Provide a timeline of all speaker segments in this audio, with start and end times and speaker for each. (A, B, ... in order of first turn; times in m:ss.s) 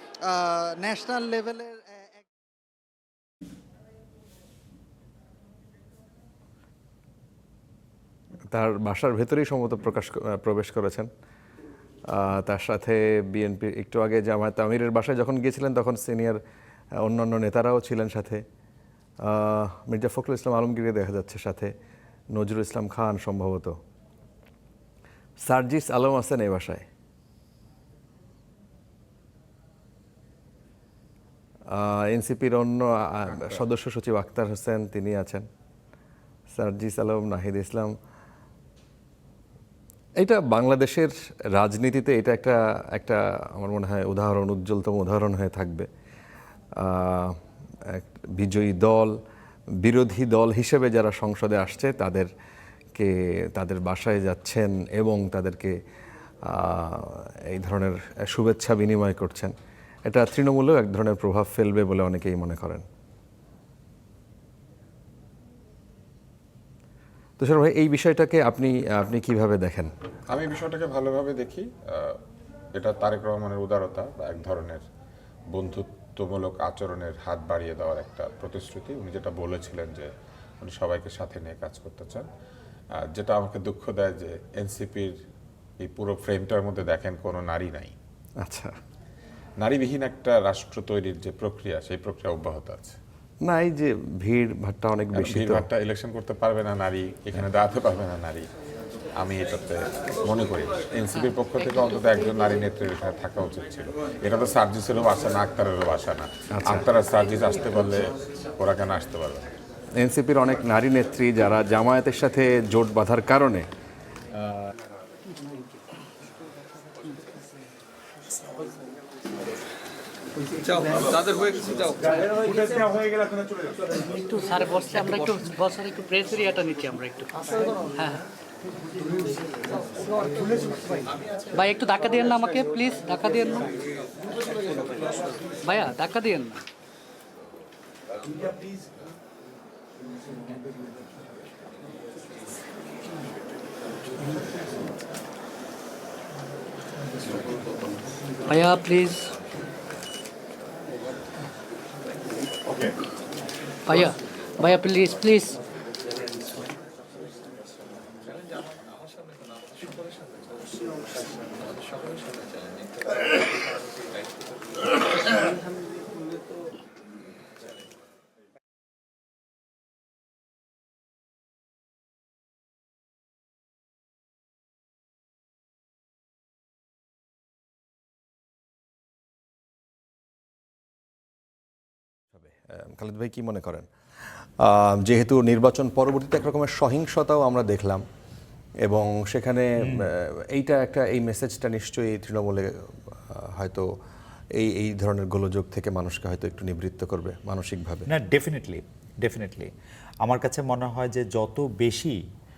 0:00.3-0:02.3 A
0:08.5-0:11.1 B
0:12.1-0:16.4 B
0:17.0-0:18.4 B
0:19.2-0:21.7 B
0:22.3-0:23.8 B
0:25.4-0:26.8 B
0:31.7-0:35.5 B
0:36.5-0:37.9 B
0:40.2-0:45.9 B
0:46.8-0:49.2 B
0:49.8-0:52.3 B
0:53.0-0:55.8 B
0:56.4-0:59.5 B
1:00.0-1:02.8 B
1:07.4-1:09.9 B
1:10.3-1:12.2 C
1:12.8-1:14.8 C
1:15.5-1:22.3 C
1:23.0-1:25.2 C
1:25.8-1:27.9 C
1:28.4-1:28.7 B
1:29.6-1:33.0 C
1:33.4-1:35.7 B
1:35.1-1:38.5 C
1:39.2-1:48.0 C
1:46.6-1:46.8 B
1:48.6-1:49.5 C
1:50.0-1:53.7 B
2:02.3-2:02.9 D
2:04.1-2:08.2 D
2:11.5-2:13.7 D
2:15.6-2:16.6 D
2:28.4-2:29.3 D
2:33.8-2:35.6 D
3:02.4-3:03.9 B
3:04.6-3:08.0 B
3:08.8-3:13.9 B
3:14.6-3:18.1 B
3:18.1-3:19.7 E
3:20.2-3:22.2 E